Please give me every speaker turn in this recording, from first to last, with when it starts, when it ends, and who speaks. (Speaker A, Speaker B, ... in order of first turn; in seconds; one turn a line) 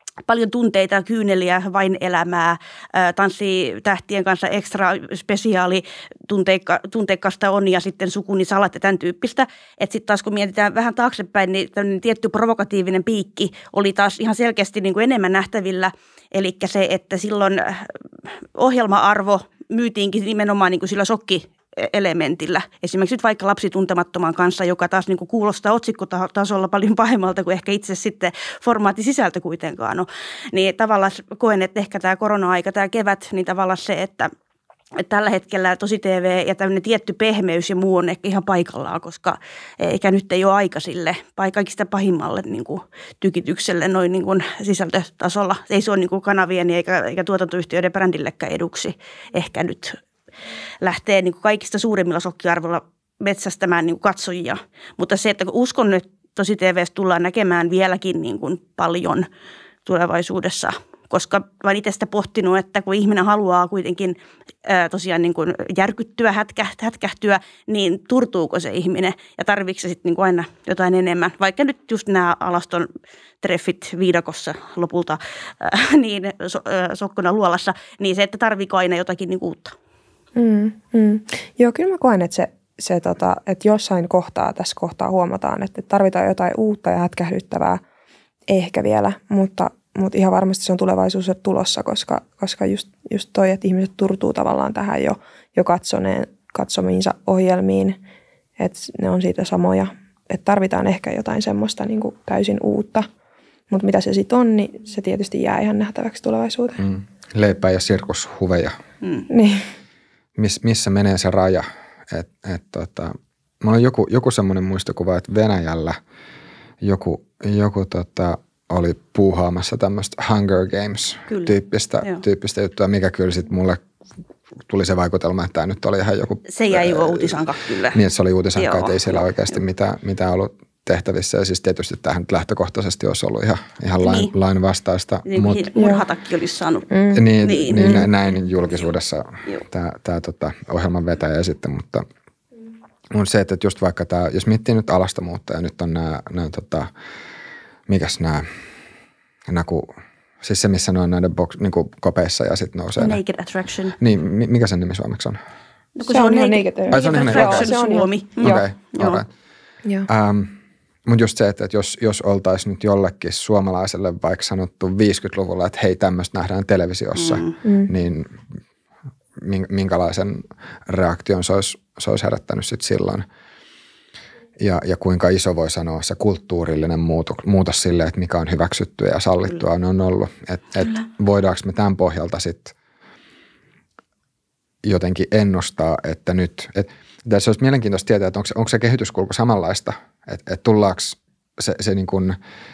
Speaker A: 0.2-17.9
Speaker A: 18.5-34.3
Speaker A: 35.0-50.0
Speaker A: 50.8-59.2
Speaker A: 59.9-72.9
Speaker A: 73.4-79.7
Speaker B: 80.3-87.8
Speaker B: 88.5-98.0
Speaker B: 98.6-103.0
Speaker B: 103.7-106.8
Speaker C: 106.8-108.7
Speaker B: 109.3-109.7
Speaker C: 110.4-116.0
Speaker C: 116.8-123.8
Speaker A: 121.3-122.2
Speaker C: 124.7-127.4
Speaker A: 126.5-128.0
Speaker C: 127.9-135.7
Speaker A: 128.6-129.2
Speaker A: 134.0-134.3
Speaker A: 135.3-136.9
Speaker B: 135.8-136.0
Speaker B: 136.9-137.3
Speaker C: 137.1-142.0
Speaker A: 137.4-138.1
Speaker B: 137.8-138.0
Speaker C: 143.1-146.9
Speaker C: 147.9-148.4
Speaker C: 149.5-153.2
Speaker A: 153.0-153.9
Speaker C: 154.0-155.4
Speaker A: 156.0-159.2
Speaker B: 156.1-158.6
Speaker C: 156.9-157.7
Speaker C: 158.4-159.3
Speaker C: 160.1-168.4
Speaker A: 167.2-167.6
Speaker B: 167.6-167.9
Speaker C: 169.4-173.2
Speaker C: 174.6-182.7
Speaker C: 184.8-192.3